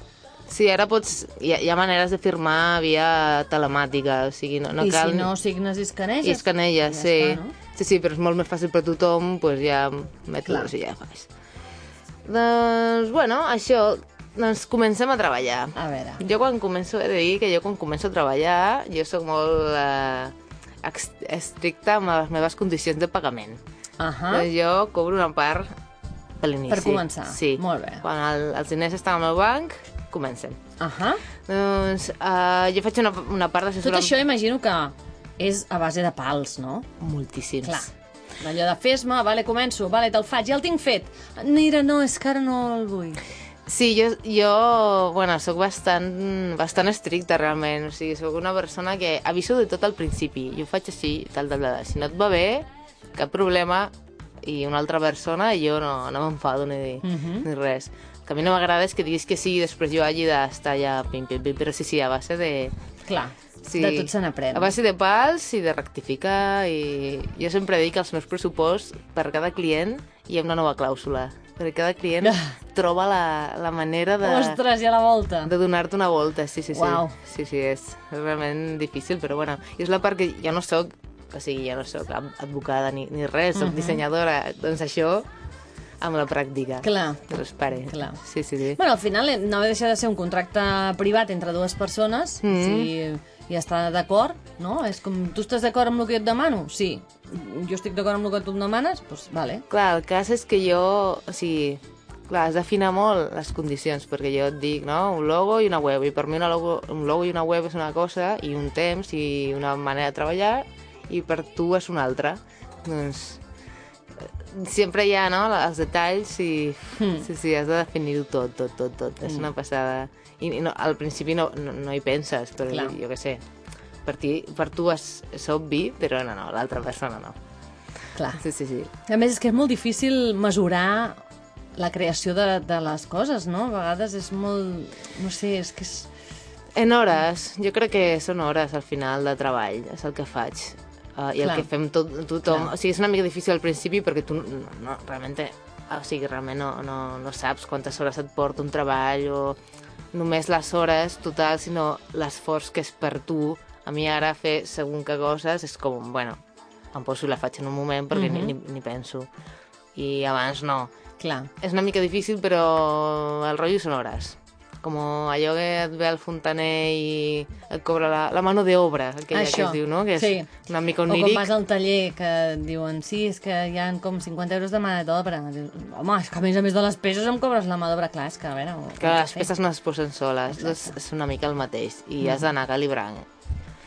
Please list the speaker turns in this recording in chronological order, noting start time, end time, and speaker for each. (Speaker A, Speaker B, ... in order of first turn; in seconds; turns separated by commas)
Speaker A: 0.5-5.3, Speaker B: 4.8-7.5, Speaker A: 6.2-11.3, Speaker B: 10.4-10.7, Speaker A: 12.2-23.6, Speaker B: 15.7-16.2, Speaker B: 24.0-24.5, Speaker A: 24.3-25.7, Speaker A: 26.4-30.6, Speaker B: 26.7-28.0, Speaker B: 30.8-31.2, Speaker A: 31.4-34.1, Speaker B: 33.8-36.9, Speaker A: 37.0-37.9, Speaker B: 37.6-43.2, Speaker A: 43.6-62.7, Speaker B: 57.0-57.5, Speaker B: 63.1-64.7, Speaker A: 63.6-74.6, Speaker B: 72.2-72.6, Speaker B: 74.2-75.5, Speaker A: 75.4-85.3, Speaker B: 76.7-77.2, Speaker B: 83.5-84.0, Speaker A: 86.0-88.8, Speaker B: 86.8-87.3, Speaker B: 87.9-88.2, Speaker B: 88.7-99.6, Speaker A: 92.4-92.9, Speaker A: 99.7-113.4, Speaker A: 114.2-123.4, Speaker B: 117.0-117.3, Speaker B: 122.7-122.9, Speaker A: 124.0-127.4, Speaker B: 128.1-128.4, Speaker A: 128.3-128.9, Speaker B: 129.0-131.2, Speaker B: 131.8-136.1, Speaker A: 136.7-149.6, Speaker B: 141.4-141.7, Speaker A: 150.1-156.4, Speaker A: 156.9-159.3, Speaker B: 158.1-158.5, Speaker A: 159.9-160.9, Speaker B: 161.2-161.5, Speaker A: 161.6-171.5, Speaker B: 169.3-170.5, Speaker B: 171.1-179.5, Speaker A: 179.0-183.3, Speaker B: 180.6-180.9, Speaker B: 182.2-182.5